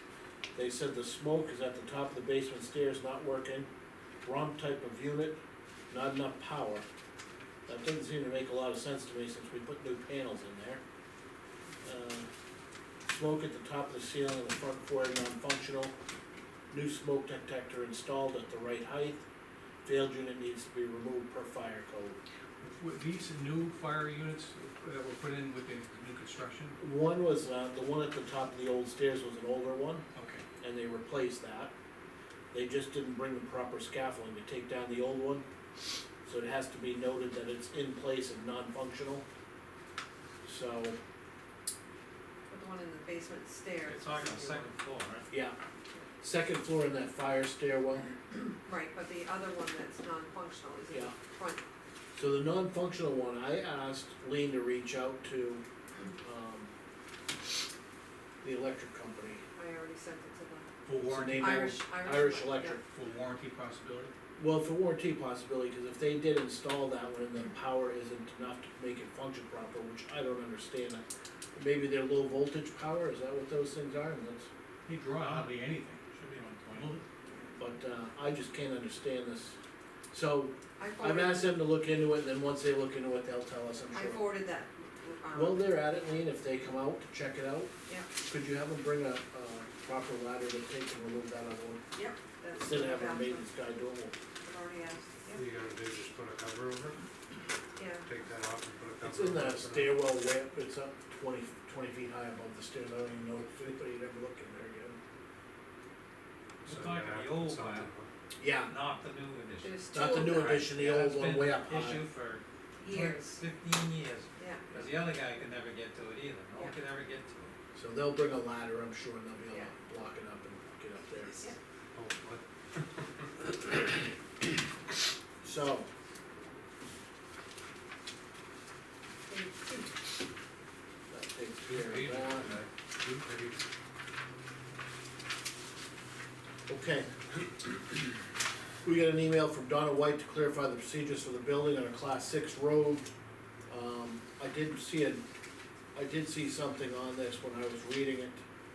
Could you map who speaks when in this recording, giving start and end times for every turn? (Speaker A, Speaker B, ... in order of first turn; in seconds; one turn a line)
Speaker A: 0.6-3.7
Speaker A: 4.2-5.4
Speaker A: 5.9-6.8
Speaker A: 7.7-10.8
Speaker A: 11.8-12.3
Speaker A: 13.1-15.9
Speaker A: 16.7-19.2
Speaker A: 19.9-22.2
Speaker B: 22.6-26.8
Speaker A: 26.8-30.0
Speaker B: 30.1-30.4
Speaker A: 30.6-31.7
Speaker A: 32.5-35.5
Speaker A: 36.2-39.2
Speaker A: 40.4-41.0
Speaker C: 42.5-44.6
Speaker D: 43.9-45.3
Speaker A: 45.3-45.6
Speaker A: 46.2-48.1
Speaker C: 48.6-51.6
Speaker A: 52.1-55.6
Speaker A: 56.2-56.7
Speaker A: 58.4-59.4
Speaker C: 59.5-60.7
Speaker B: 60.9-61.7
Speaker A: 61.0-62.8
Speaker C: 61.3-62.8
Speaker B: 62.8-64.1
Speaker A: 64.4-71.0
Speaker A: 71.5-74.5
Speaker B: 74.9-76.0
Speaker D: 76.1-76.9
Speaker B: 76.7-77.0
Speaker C: 77.3-77.5
Speaker A: 77.6-79.6
Speaker A: 80.1-84.2
Speaker C: 80.8-81.6
Speaker C: 83.9-85.7
Speaker A: 85.3-87.7
Speaker A: 88.3-91.8
Speaker C: 91.9-93.5
Speaker A: 92.5-94.1
Speaker C: 94.4-95.4
Speaker E: 95.3-97.0
Speaker C: 97.8-98.0
Speaker E: 98.0-100.0
Speaker A: 99.0-105.0
Speaker D: 106.7-107.9
Speaker E: 106.7-108.1
Speaker A: 108.4-108.7
Speaker D: 108.7-109.8
Speaker C: 109.6-110.7
Speaker A: 109.9-112.0
Speaker D: 110.3-117.5
Speaker C: 112.8-113.4
Speaker C: 114.4-114.7
Speaker A: 117.8-121.4
Speaker C: 119.5-119.8
Speaker E: 121.9-122.4
Speaker A: 125.4-125.9
Speaker C: 129.3-130.0
Speaker A: 131.1-132.5
Speaker E: 131.7-133.6
Speaker A: 136.7-137.1
Speaker A: 138.8-143.1
Speaker A: 143.7-145.2
Speaker A: 145.9-148.4